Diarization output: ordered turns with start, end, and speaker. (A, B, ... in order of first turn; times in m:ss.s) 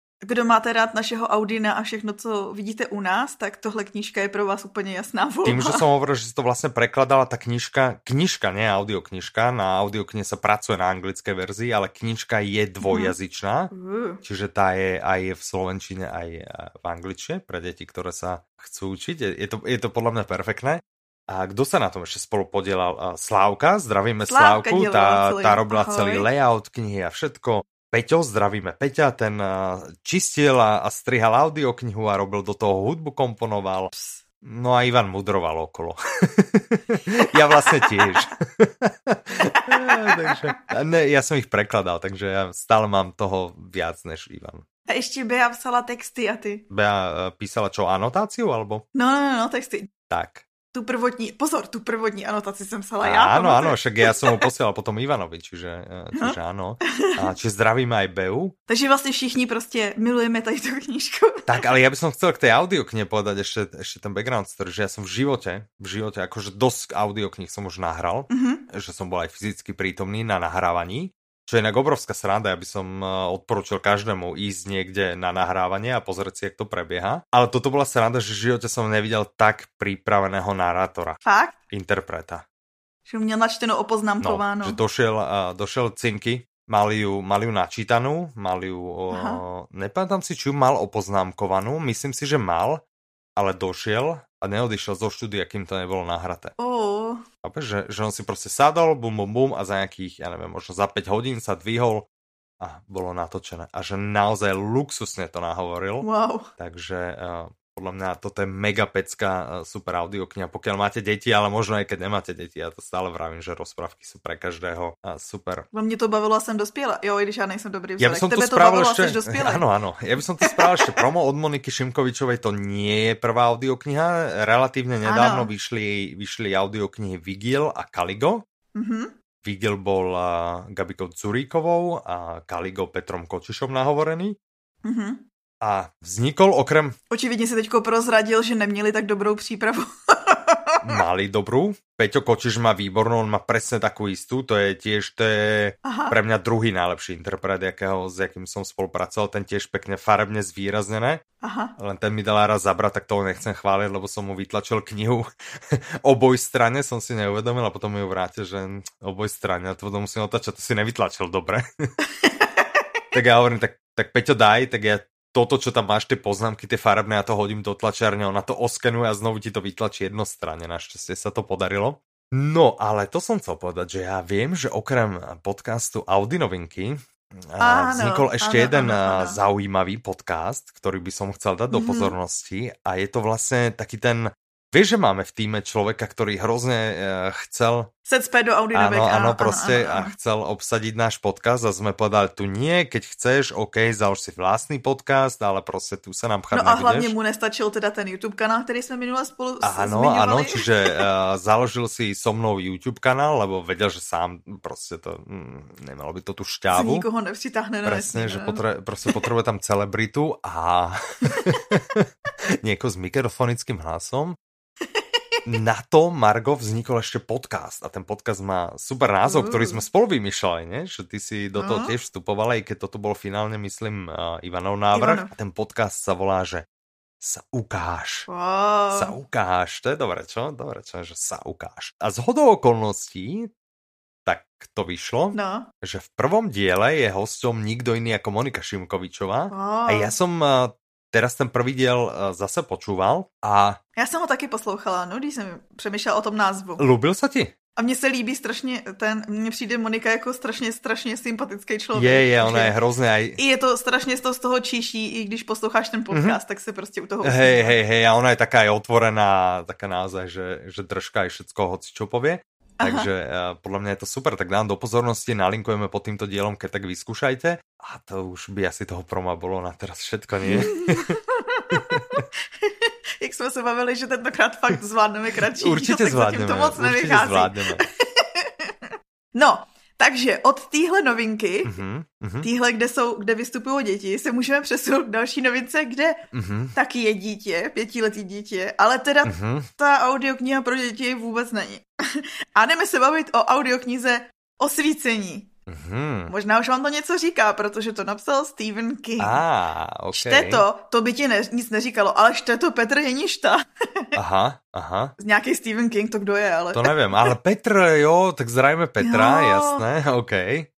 0:00.2-0:05.8 A
0:05.4-0:13.7 B
0:12.8-0:13.2 A
0:13.7-0:14.2 A
0:14.2-0:44.6 B
0:24.3-0:26.3 A
0:33.9-0:34.2 A
0:37.4-0:38.2 A
0:39.6-0:40.4 A
0:44.9-0:46.6 A
0:46.7-0:48.8 B
0:48.9-0:49.9 A
0:50.1-0:50.5 B
0:50.7-0:54.4 A
0:53.0-0:58.6 B
0:58.7-1:01.6 A
1:01.5-1:22.4 B
1:08.3-1:08.6 A
1:21.2-1:21.6 A
1:23.1-1:24.8 A
1:24.2-1:32.8 B
1:29.1-1:29.4 A
1:33.4-1:36.5 B
1:36.6-1:37.2 A
1:37.4-1:42.1 B
1:42.6-1:55.7 B
1:46.0-1:46.5 A
1:55.7-1:59.6 A
1:58.0-2:08.4 B
2:00.4-2:01.0 A
2:05.0-2:05.5 A
2:08.8-2:09.1 A
2:09.4-2:14.4 B
2:14.8-2:15.2 A
2:15.6-2:17.0 B
2:17.1-2:20.8 A
2:20.8-2:31.2 B
2:25.8-2:26.2 A
2:31.4-2:31.8 A
2:31.8-2:41.6 B
2:42.2-2:42.8 A
2:43.1-3:07.9 B
2:57.6-2:59.4 A
3:01.7-3:02.2 A
3:08.1-3:10.2 A
3:08.7-3:17.2 B
3:16.5-3:21.1 A
3:19.6-3:27.1 B
3:26.7-3:29.2 A
3:27.8-3:32.1 B
3:32.6-3:34.4 B
3:35.0-3:35.4 A
3:35.4-3:46.7 B
3:39.2-3:39.8 A
3:41.6-3:41.9 A
3:44.9-3:45.3 A
3:47.2-3:48.3 B
3:48.3-3:49.2 A
3:48.9-3:53.5 B
3:54.3-4:03.8 B
3:55.3-3:55.7 A
3:59.5-4:00.2 A
4:04.0-4:06.8 A
4:06.8-4:07.5 B
4:07.8-4:12.7 A
4:11.9-4:13.4 B
4:13.4-4:17.8 A
4:16.1-4:16.4 B
4:17.2-4:31.1 B
4:22.8-4:23.1 A
4:30.4-4:32.0 A
4:31.7-4:32.2 B
4:32.6-4:41.8 A
4:35.5-4:37.8 B
4:41.6-4:42.5 B
4:42.4-4:46.2 A
4:46.3-4:46.8 B
4:46.8-4:55.5 A
4:49.2-4:49.7 B
4:55.7-4:56.3 B
4:56.3-4:59.4 A
4:59.2-5:00.7 B
5:00.1-5:03.6 A
5:04.2-5:05.1 B
5:05.2-5:07.3 A
5:06.7-5:10.7 B
5:09.0-5:09.8 A